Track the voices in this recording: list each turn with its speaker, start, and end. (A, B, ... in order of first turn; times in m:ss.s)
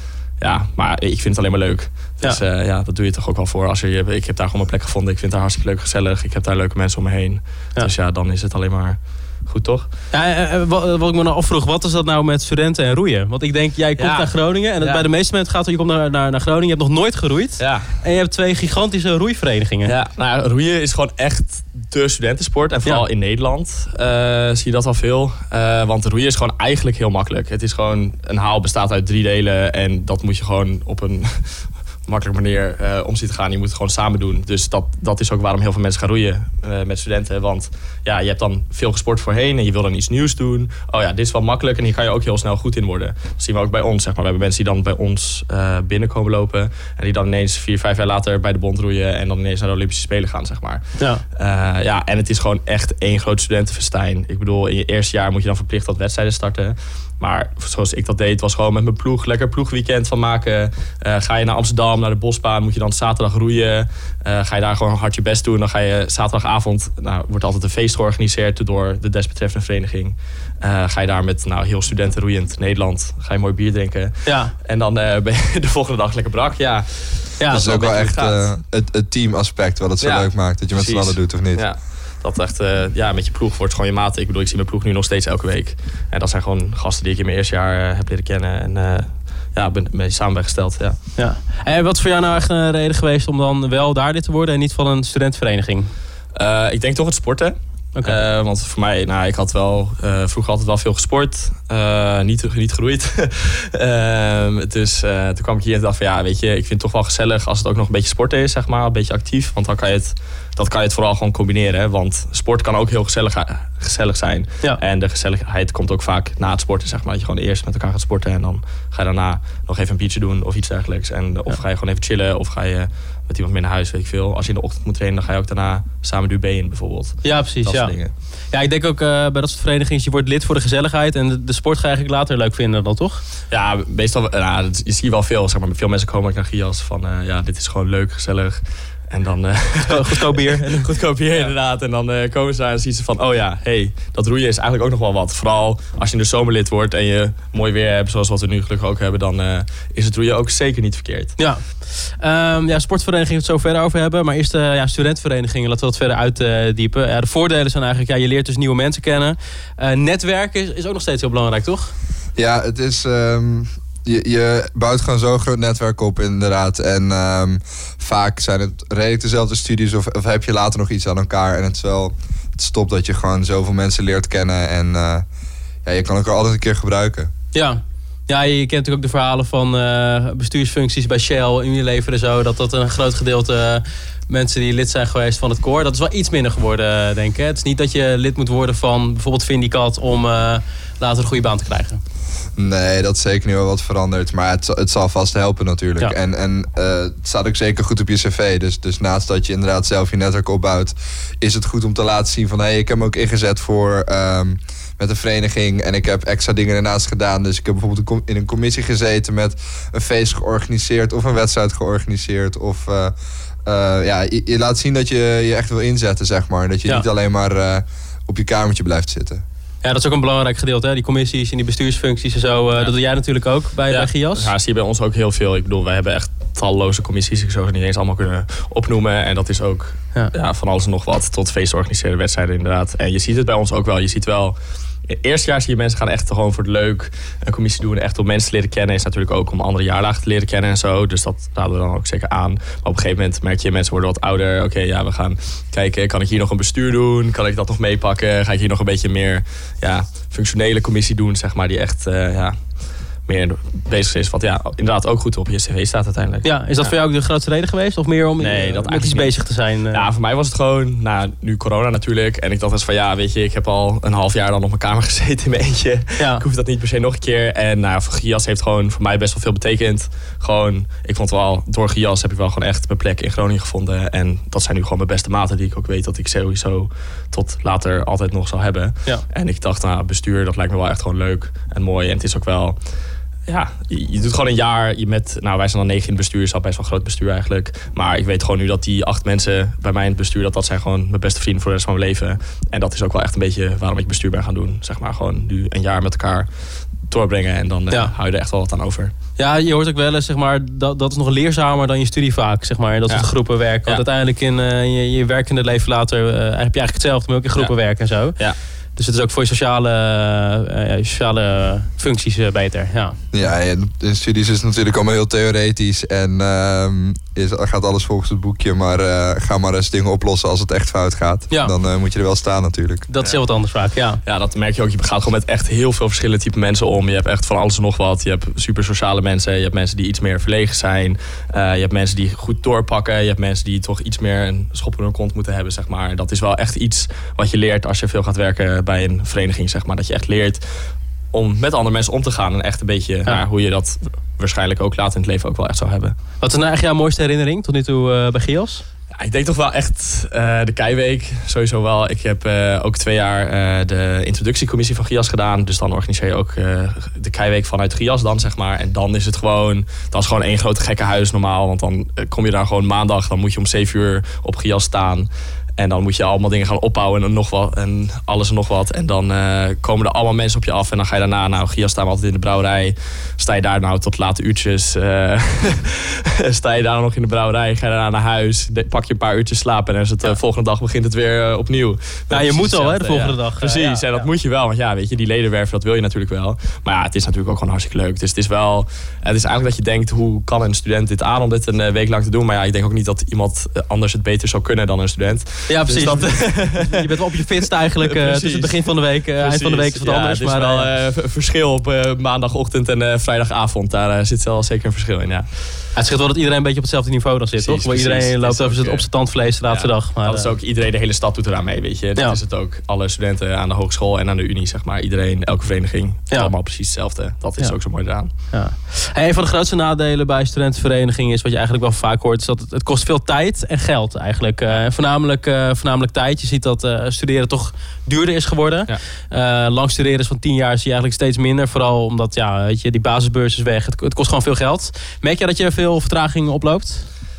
0:00.4-0:09.9 A
0:10.1-0:19.9 B
0:14.0-0:15.0 A
0:17.6-0:17.9 A
0:19.8-1:18.6 A
1:14.2-1:14.5 B
1:17.5-1:21.6 C
1:20.0-1:31.0 A
1:31.2-1:35.9 B
1:36.3-2:08.1 A
2:07.2-2:08.0 B
2:08.5-2:13.2 B
2:13.5-2:31.4 A
2:19.8-2:21.5 B
2:31.4-2:41.9 B
2:42.4-2:55.2 C
2:55.8-2:57.3 C
2:57.5-3:12.0 B
3:12.6-3:39.4 C
3:39.8-3:44.5 B
3:43.9-4:16.9 A
4:16.4-4:20.0 B
4:18.4-4:42.8 A
4:26.2-4:26.4 B
4:43.5-4:56.5 A
4:57.0-4:59.1 A
4:59.4-5:08.4 B
5:03.1-5:04.0 A
5:07.6-5:08.6 A
5:09.0-5:13.2 B
5:13.3-5:23.1 C
5:23.1-5:24.2 B
5:24.2-5:40.6 A
5:41.3-5:46.2 A
5:46.4-5:48.8 B
5:49.2-6:45.5 A
6:22.3-6:24.2 B
6:35.7-6:40.9 B
6:45.9-6:50.5 B
6:47.6-6:58.3 A
6:58.4-7:17.1 B